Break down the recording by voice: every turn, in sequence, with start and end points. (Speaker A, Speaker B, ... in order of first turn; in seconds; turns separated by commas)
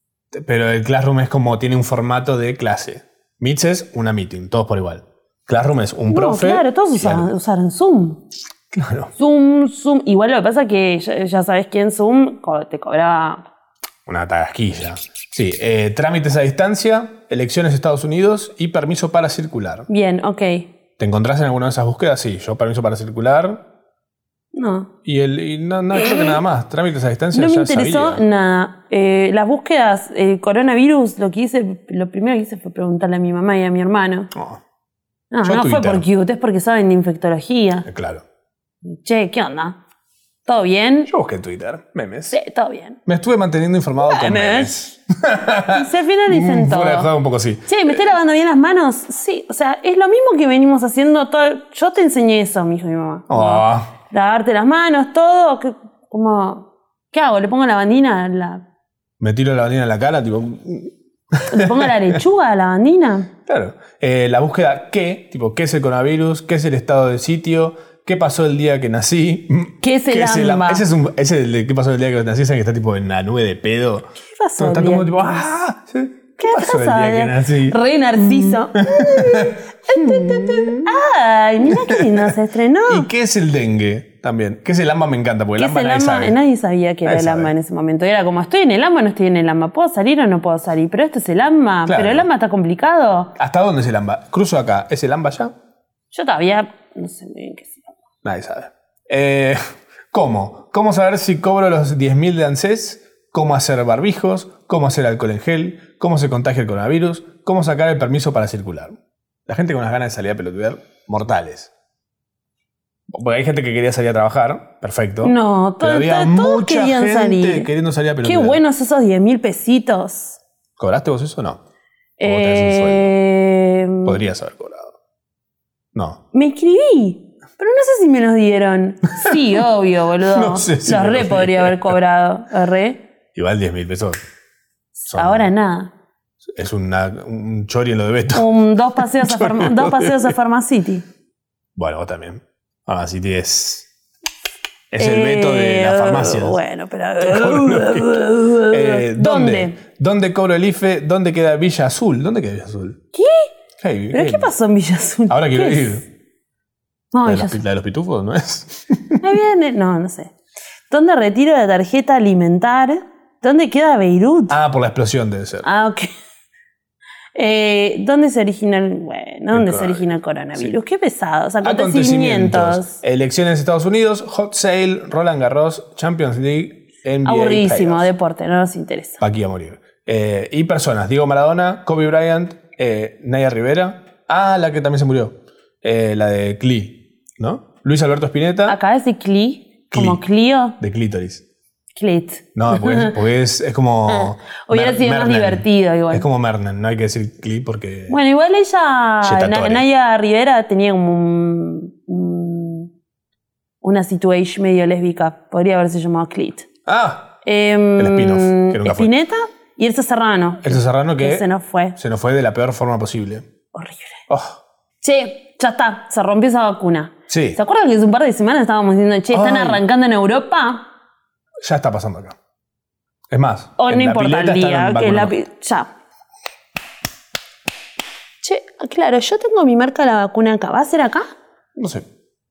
Speaker A: 0.3-7.3, Speaker B: 6.1-8.2, Speaker A: 8.7-9.1, Speaker B: 9.2-13.4, Speaker A: 14.1-19.9, Speaker B: 19.9-20.7, Speaker A: 21.0-23.6, Speaker B: 24.5-24.9, Speaker A: 25.0-28.2, Speaker B: 25.9-26.4, Speaker B: 27.3-34.3, Speaker A: 34.3-34.6, Speaker B: 35.3-37.9, Speaker A: 35.4-36.0, Speaker A: 37.9-38.2, Speaker B: 38.8-39.8, Speaker B: 40.5-41.1, Speaker A: 41.1-42.4, Speaker B: 42.3-43.0, Speaker A: 43.0-48.0, Speaker B: 44.0-44.8, Speaker B: 45.7-47.1, Speaker B: 47.7-58.6, Speaker A: 53.3-53.9, Speaker A: 59.2-62.2, Speaker B: 61.5-63.3, Speaker A: 63.5-81.0, Speaker B: 69.8-70.8, Speaker B: 74.2-75.5, Speaker B: 76.4-83.1, Speaker A: 81.6-82.3, Speaker A: 82.9-86.4, Speaker B: 85.6-93.3, Speaker A: 87.0-87.5, Speaker A: 91.9-92.3, Speaker A: 93.4-95.5, Speaker B: 96.1-97.9, Speaker A: 98.2-111.7, Speaker A: 113.1-118.6, Speaker B: 115.2-117.7, Speaker B: 118.2-120.4, Speaker A: 120.8-121.6, Speaker B: 122.2-124.2, Speaker A: 122.2-123.1, Speaker A: 124.0-124.9, Speaker A: 125.9-126.2, Speaker B: 126.3-133.0, Speaker A: 130.3-131.9, Speaker A: 133.3-134.2, Speaker B: 135.0-135.9, Speaker A: 135.1-135.5, Speaker A: 136.4-140.3, Speaker B: 138.3-141.0, Speaker A: 141.8-143.9, Speaker A: 144.9-146.6, Speaker B: 145.0-149.8, Speaker A: 147.2-153.0, Speaker B: 153.1-153.5, Speaker A: 153.8-154.5, Speaker B: 154.1-156.0, Speaker A: 155.3-156.0, Speaker B: 157.1-157.6, Speaker A: 157.2-159.2, Speaker B: 159.2-160.3, Speaker B: 160.9-164.6, Speaker A: 164.5-165.7, Speaker B: 165.6-166.1, Speaker B: 167.3-173.0, Speaker A: 169.5-170.7, Speaker A: 171.6-178.1, Speaker B: 177.2-179.2, Speaker A: 179.2-188.8, Speaker B: 188.7-190.8, Speaker A: 189.9-190.2, Speaker A: 190.8-191.4, Speaker B: 191.9-193.2, Speaker A: 192.5-198.2, Speaker B: 194.1-196.2, Speaker B: 198.1-202.9, Speaker A: 199.2-199.8, Speaker B: 203.8-206.7, Speaker A: 206.8-207.3, Speaker B: 207.4-212.0, Speaker A: 208.0-209.1, Speaker A: 210.6-213.5, Speaker B: 213.7-214.2, Speaker A: 214.3-214.6, Speaker B: 215.0-220.9, Speaker A: 217.3-217.6, Speaker A: 219.3-219.8, Speaker A: 221.6-222.4, Speaker A: 223.3-225.3, Speaker B: 223.8-225.9, Speaker B: 228.4-231.2, Speaker A: 231.8-232.1